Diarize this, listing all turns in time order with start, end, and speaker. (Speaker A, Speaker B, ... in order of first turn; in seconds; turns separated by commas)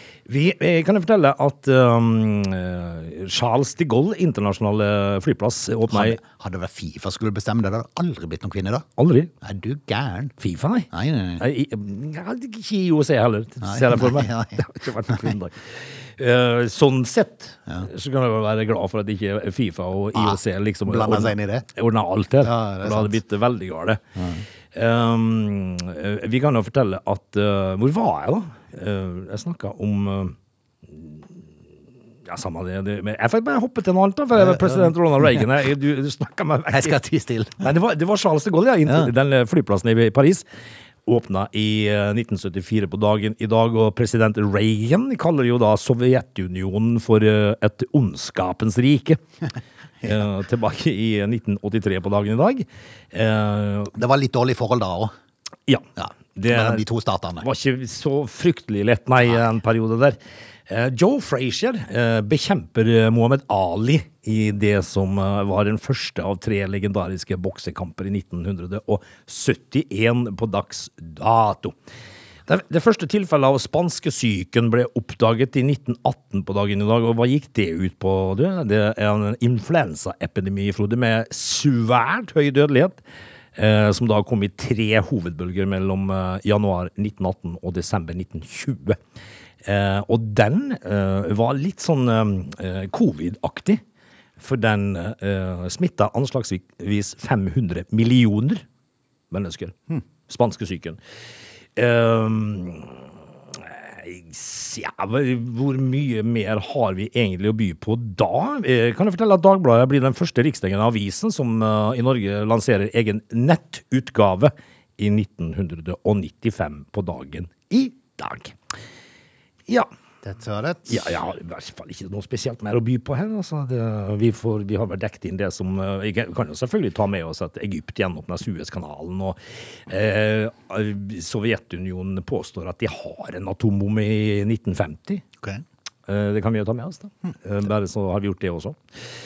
Speaker A: 0.3-6.2, Speaker B: 5.9-8.8, Speaker A: 9.0-9.3, Speaker B: 9.4-10.3, Speaker A: 10.4-24.0, Speaker B: 10.9-11.4, Speaker B: 13.6-15.3, Speaker B: 20.1-21.6, Speaker B: 22.4-23.2, Speaker B: 24.1-24.4, Speaker A: 24.7-31.4, Speaker A: 32.2-37.0, Speaker B: 34.4-34.9, Speaker B: 36.7-37.6, Speaker A: 37.6-40.4, Speaker A: 41.0-49.2, Speaker A: 50.0-53.9, Speaker B: 53.9-55.1, Speaker A: 55.7-56.8, Speaker B: 56.0-57.5, Speaker A: 57.4-71.8, Speaker A: 72.5-83.0, Speaker A: 83.5-89.0, Speaker A: 89.6-93.8, Speaker A: 94.4-98.6, Speaker A: 99.3-101.0, Speaker A: 101.8-118.5, Speaker B: 120.2-121.1, Speaker A: 120.9-135.2, Speaker A: 136.1-138.8